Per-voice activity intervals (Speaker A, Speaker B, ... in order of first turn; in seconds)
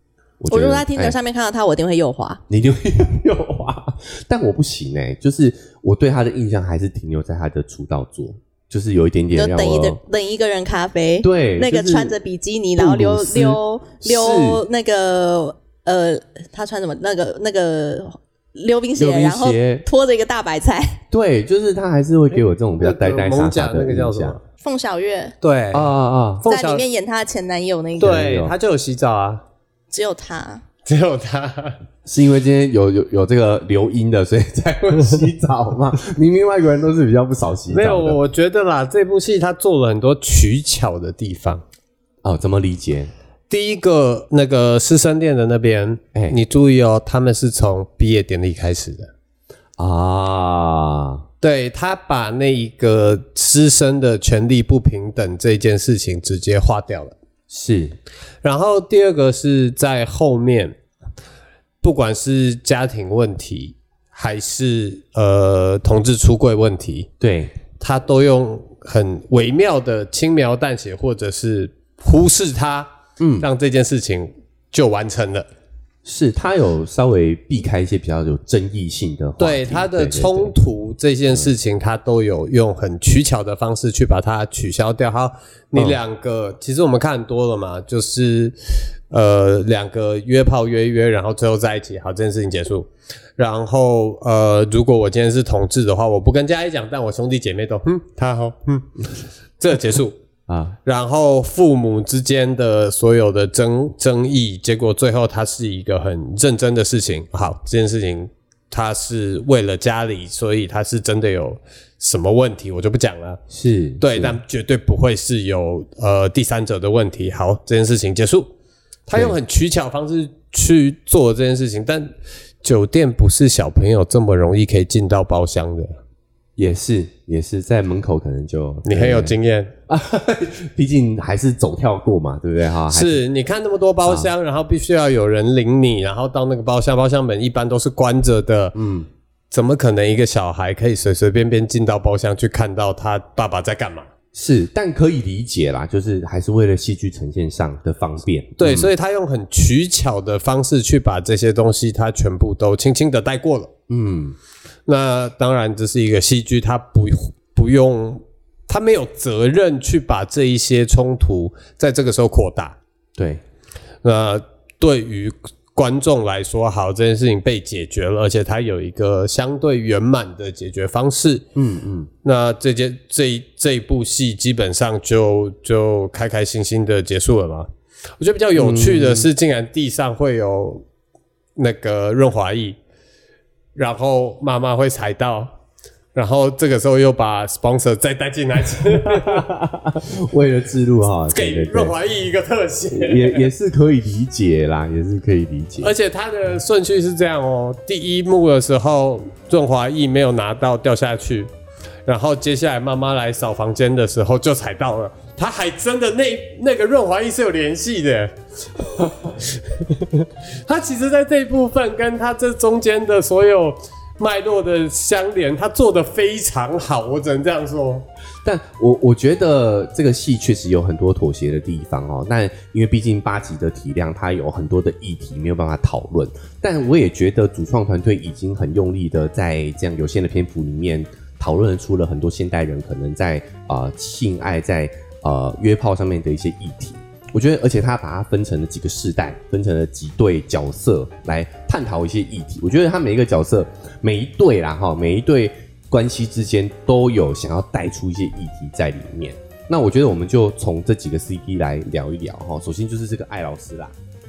Speaker A: 0.4-1.1, 2.5-10.0, 11.2-12.1, 12.8-14.6, 19.0-19.8, 21.1-24.4, 25.7-26.5, 28.0-28.5, 32.0-38.2, 42.2-43.1, 49.8-51.2, 57.5-58.0, 67.2-67.6, 73.2-73.5, 76.0-80.5, 85.7-86.0, 100.5-100.8, 113.5-114.4, 126.6-129.3, 129.9-133.2, 134.0-134.3, 138.7-139.1, 144.3-148.9, 153.9-154.4, 163.2-163.4, 171.5-172.1, 178.6-179.3, 188.8-191.9, 192.9-195.9, 218.4-253.9
Speaker B: 0.5-2.4, 9.3-21.0, 24.6-25.4, 26.4-28.2, 29.9-30.6
Speaker C: 22.8-24.4, 25.4-26.8, 28.0-29.4, 30.9-31.8, 37.7-41.6, 43.5-49.1, 51.4-57.1, 58.4-60.7, 61.8-67.1, 67.8-72.9, 73.4-75.5, 79.4-88.5, 89.1-98.9, 99.6-100.2, 100.8-113.4, 114.0-118.5, 119.1-122.1, 122.6-126.0, 128.8-129.7, 132.9-138.7, 139.5-144.1, 148.6-153.7, 154.9-162.8, 164.0-171.4, 172.2-177.7, 178.2-180.8, 181.6-182.8, 183.7-185.5, 186.1-189.5, 191.3-193.5, 195.8-201.5, 202.1-218.1